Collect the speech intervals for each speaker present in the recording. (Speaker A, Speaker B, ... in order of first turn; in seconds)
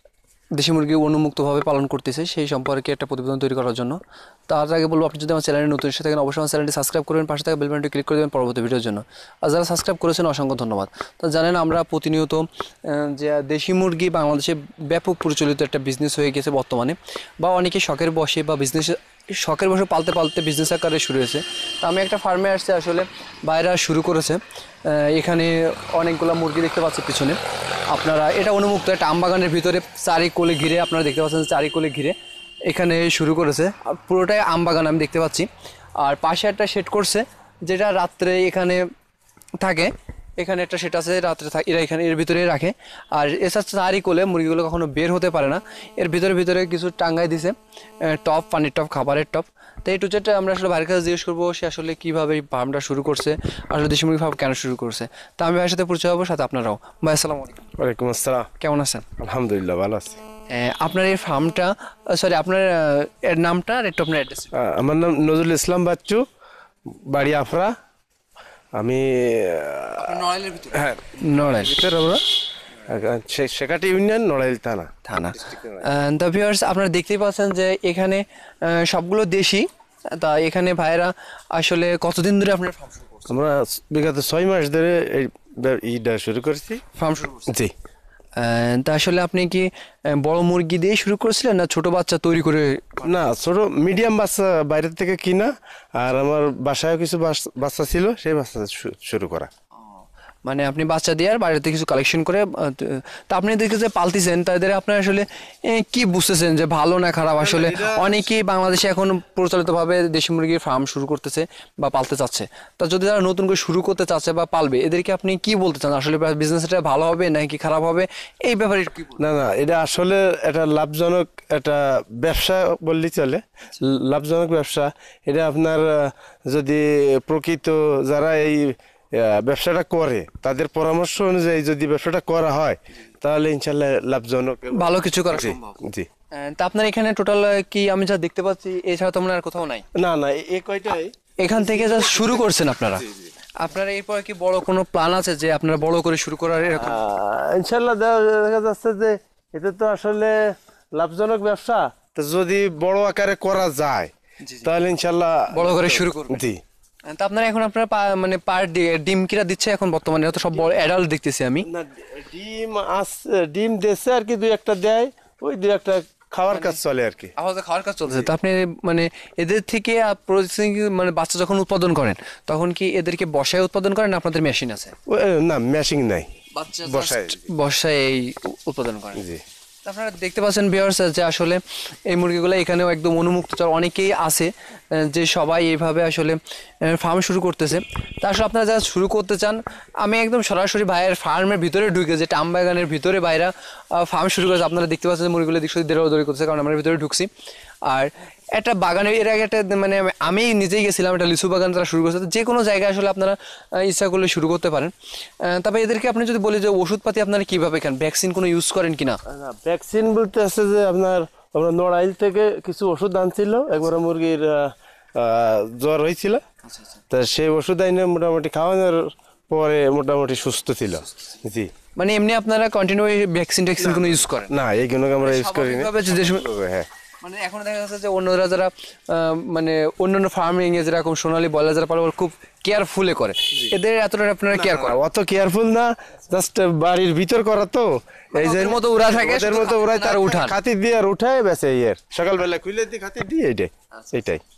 Speaker A: 0.5-38.9, 39.6-57.7, 58.6-59.1, 60.5-64.5, 70.0-71.7, 75.0-83.3, 86.9-87.5, 88.4-93.1, 99.9-119.2, 134.7-135.8, 136.3-139.8, 141.4-147.0, 154.4-154.7, 155.5-156.4, 157.1-161.7, 166.5-166.8, 167.4-175.0, 176.6-179.2, 179.8-197.3, 197.9-209.2, 221.9-224.5, 225.2-226.5, 227.2-235.0, 238.3-240.6
Speaker B: 57.8-58.5, 59.2-60.2, 64.5-66.2, 66.9-67.7, 68.8-72.2, 72.8-74.9, 75.4-75.8, 83.3-86.8, 87.5-87.7, 93.0-99.5, 107.4-108.2, 119.2-136.1, 139.9-142.5, 146.8-154.1, 154.6-156.6, 161.7-167.3, 175.1-176.3, 176.8-177.5, 179.2-179.4, 209.3-216.4, 217.1-221.7, 223.8-226.9, 234.5-244.4